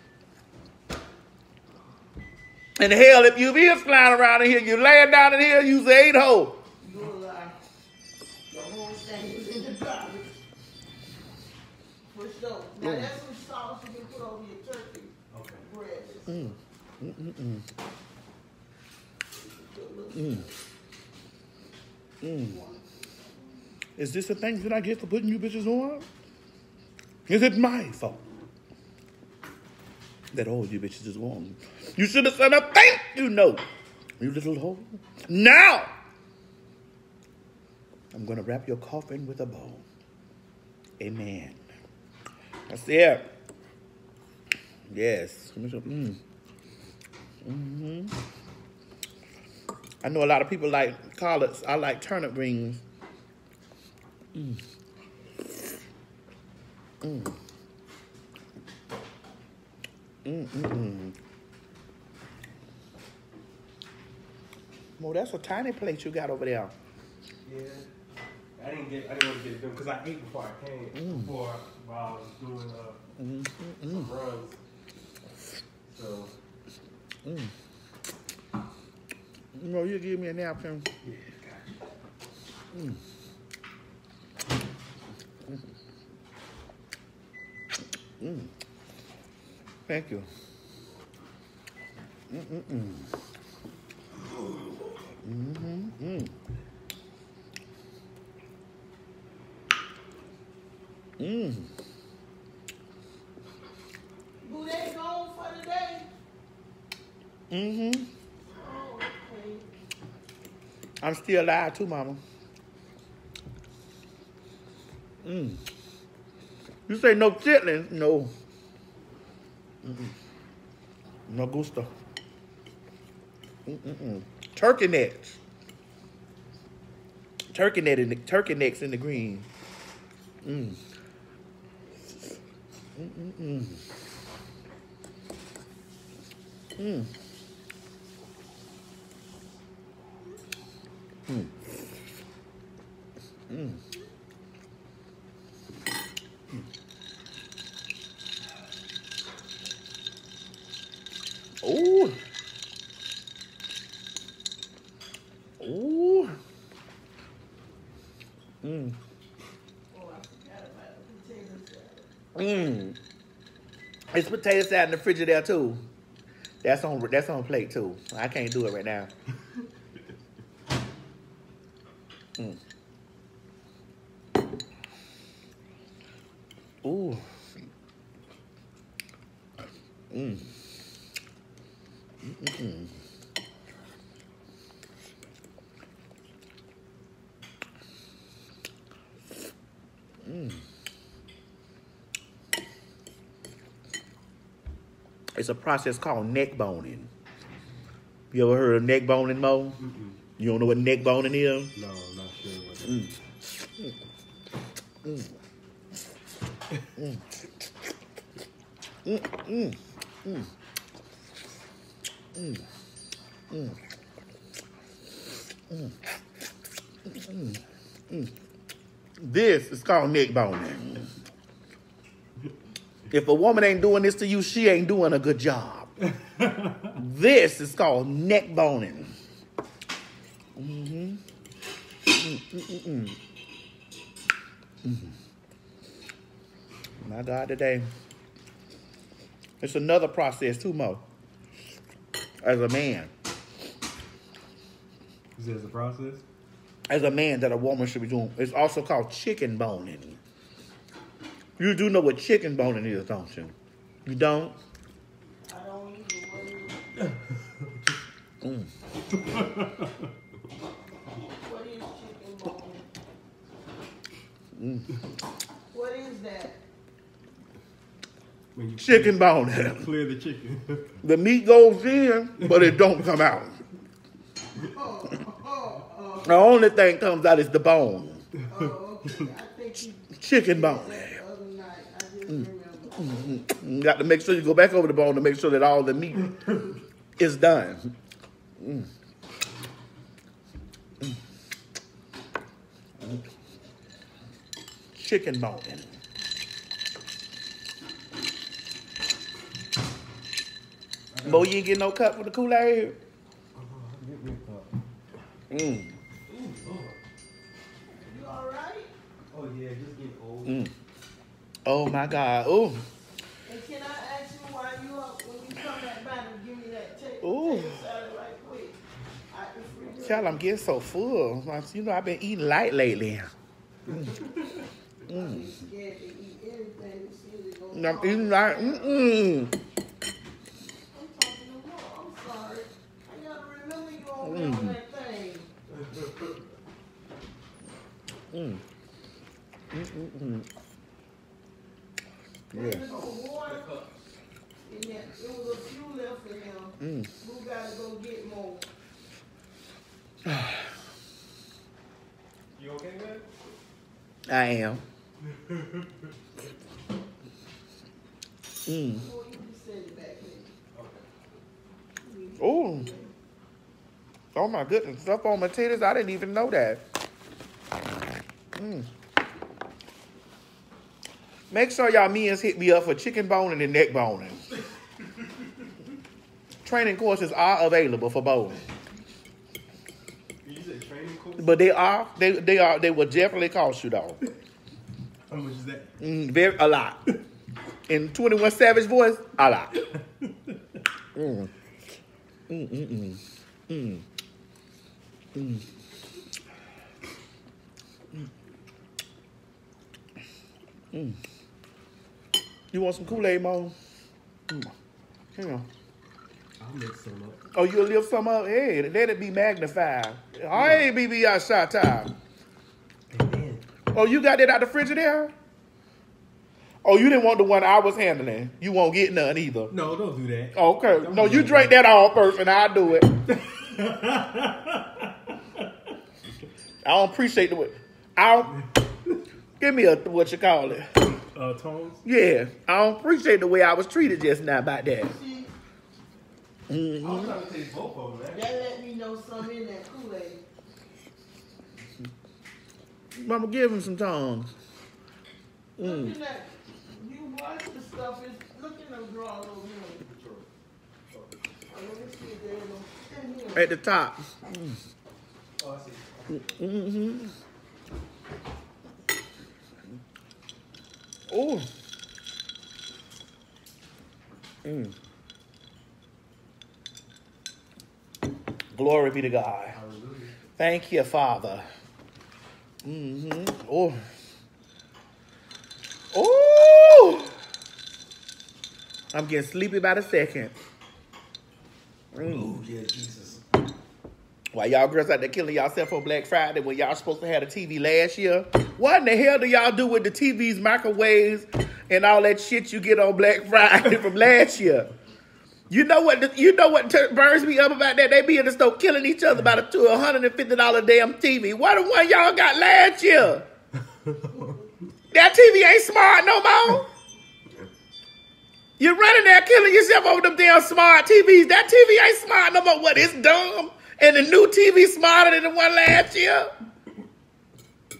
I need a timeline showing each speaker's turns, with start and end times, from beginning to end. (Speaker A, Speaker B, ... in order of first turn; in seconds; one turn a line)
Speaker A: 2.8-6.6
Speaker B: 6.8-7.5
Speaker B: 8.5-10.3
Speaker B: 12.1-15.1
Speaker A: 12.8-13.1
Speaker C: 15.3-15.7
Speaker B: 15.6-16.5
Speaker A: 16.3-17.6
Speaker B: 19.4-20.5
Speaker A: 20.1-20.4
Speaker A: 22.2-22.6
Speaker B: 22.3-22.8
Speaker A: 24.0-26.1
Speaker A: 27.3-28.2
Speaker A: 30.3-33.6
Speaker A: 34.2-35.9
Speaker A: 38.1-39.8
Speaker A: 41.0-41.6
Speaker A: 42.7-43.3
Speaker A: 44.9-46.2
Speaker A: 47.4-48.1
Speaker A: 50.0-52.8
Speaker A: 54.3-54.6
Speaker A: 57.0-57.3
Speaker A: 60.2-61.1
Speaker A: 65.0-66.7
Speaker C: 67.4-67.9
Speaker C: 68.5-73.0
Speaker A: 70.9-71.3
Speaker A: 73.2-74.1
Speaker C: 73.8-74.6
Speaker C: 75.9-76.3
Speaker A: 77.2-77.5
Speaker A: 79.5-80.9
Speaker C: 81.0-81.9
Speaker A: 82.7-83.0
Speaker A: 88.2-88.5
Speaker A: 89.9-90.3
Speaker A: 92.3-93.1
Speaker A: 95.2-96.3
Speaker A: 101.2-101.7
Speaker B: 104.4-106.1
Speaker A: 107.5-108.1
Speaker B: 108.5-109.7
Speaker A: 111.0-112.2
Speaker A: 115.2-115.6
Speaker A: 116.9-118.3
Speaker A: 119.8-120.1
Speaker A: 121.3-121.9
Speaker A: 123.7-125.4
Speaker A: 127.5-129.4
Speaker A: 130.4-130.8
Speaker A: 132.9-133.8
Speaker A: 136.8-137.1
Speaker A: 143.5-143.8
Speaker A: 151.6-152.2
Speaker A: 155.6-156.3
Speaker A: 158.6-158.9
Speaker B: 159.9-162.1
Speaker A: 162.3-162.9
Speaker A: 164.1-165.8
Speaker A: 166.6-169.1
Speaker A: 176.8-177.2
Speaker A: 180.1-180.5
Speaker A: 182.2-182.9
Speaker A: 190.2-190.6
Speaker A: 195.3-197.1
Speaker A: 198.3-199.8
Speaker C: 199.8-200.2
Speaker A: 200.4-201.7
Speaker C: 201.7-203.1
Speaker A: 209.0-210.5
Speaker A: 212.3-212.6
Speaker A: 213.5-213.8
Speaker A: 217.1-218.3
Speaker A: 219.2-221.1
Speaker A: 223.1-225.9
Speaker C: 226.4-226.9
Speaker A: 226.9-229.1
Speaker A: 230.6-231.2
Speaker A: 232.1-233.2
Speaker A: 234.8-235.1
Speaker A: 237.0-237.9
Speaker A: 239.6-241.0
Speaker A: 242.4-243.1
Speaker C: 245.3-246.2
Speaker A: 246.9-250.2
Speaker A: 251.6-253.5
Speaker A: 254.1-254.5
Speaker B: 255.5-256.9
Speaker A: 258.4-258.7
Speaker C: 259.4-259.9
Speaker B: 261.4-262.9
Speaker A: 264.6-264.9
Speaker B: 265.7-266.6
Speaker C: 268.5-271.0
Speaker A: 268.8-269.9
Speaker A: 271.0-273.6
Speaker B: 274.6-276.5
Speaker A: 276.2-278.2
Speaker B: 278.5-283.0
Speaker A: 280.1-281.2
Speaker A: 282.9-286.3
Speaker A: 287.2-287.9
Speaker A: 288.6-288.9
Speaker A: 294.9-295.9
Speaker C: 301.1-301.5
Speaker A: 301.2-303.0
Speaker C: 303.5-304.7
Speaker A: 305.5-305.9
Speaker C: 306.3-307.0
Speaker B: 308.0-308.9
Speaker C: 309.3-310.6
Speaker A: 310.4-310.7
Speaker A: 311.6-312.8
Speaker B: 313.4-318.8
Speaker A: 317.2-317.8
Speaker B: 319.3-320.4
Speaker A: 320.0-323.3
Speaker A: 323.9-324.2
Speaker B: 325.1-329.3
Speaker A: 325.1-325.4
Speaker A: 327.7-329.6
Speaker B: 330.9-335.5
Speaker A: 334.2-334.8
Speaker A: 338.3-338.6
Speaker A: 339.7-340.5
Speaker A: 342.5-342.8
Speaker B: 342.5-343.6
Speaker C: 343.4-343.9
Speaker B: 344.6-348.6
Speaker A: 346.8-347.1
Speaker A: 350.2-350.7
Speaker C: 352.6-353.3
Speaker A: 354.3-354.8
Speaker C: 355.2-356.1
Speaker A: 358.6-359.0
Speaker B: 358.9-360.5
Speaker C: 360.7-361.1
Speaker B: 362.0-363.1
Speaker A: 362.4-362.9
Speaker A: 364.3-366.8
Speaker A: 368.5-368.9
Speaker A: 371.5-374.4
Speaker A: 376.6-378.6
Speaker C: 380.4-381.6
Speaker A: 381.4-384.2
Speaker C: 385.3-385.9
Speaker A: 386.0-387.0
Speaker A: 387.9-389.7
Speaker C: 389.9-390.6
Speaker A: 391.1-391.5
Speaker A: 392.5-394.0
Speaker A: 395.3-395.6
Speaker A: 402.7-403.7
Speaker A: 405.4-405.6
Speaker C: 406.6-407.4
Speaker A: 407.5-412.1
Speaker C: 410.6-410.9
Speaker C: 413.1-413.6
Speaker A: 413.9-415.3
Speaker A: 416.8-419.7
Speaker C: 419.7-421.8
Speaker A: 420.5-423.1
Speaker C: 423.3-425.1
Speaker A: 426.8-428.6
Speaker A: 429.6-430.9
Speaker C: 431.2-432.0
Speaker A: 432.0-435.1
Speaker B: 435.0-435.5
Speaker A: 436.7-437.3
Speaker C: 437.0-438.6
Speaker B: 438.3-440.4
Speaker A: 443.1-444.5
Speaker A: 445.8-446.1
Speaker B: 445.8-450.0
Speaker C: 450.0-450.5
Speaker B: 451.7-453.7
Speaker A: 453.5-454.8
Speaker C: 455.6-456.7
Speaker A: 456.3-457.3
Speaker A: 461.3-461.7
Speaker A: 464.6-464.9
Speaker A: 468.7-469.8
Speaker C: 469.7-470.3
Speaker A: 470.6-471.6
Speaker A: 472.8-474.0
Speaker A: 476.1-477.3
Speaker A: 479.1-480.5
Speaker A: 482.1-482.5
Speaker C: 482.2-483.4
Speaker A: 484.5-494.9
Speaker A: 495.7-503.4
Speaker C: 503.8-504.6
Speaker A: 505.1-506.9
Speaker A: 508.8-516.5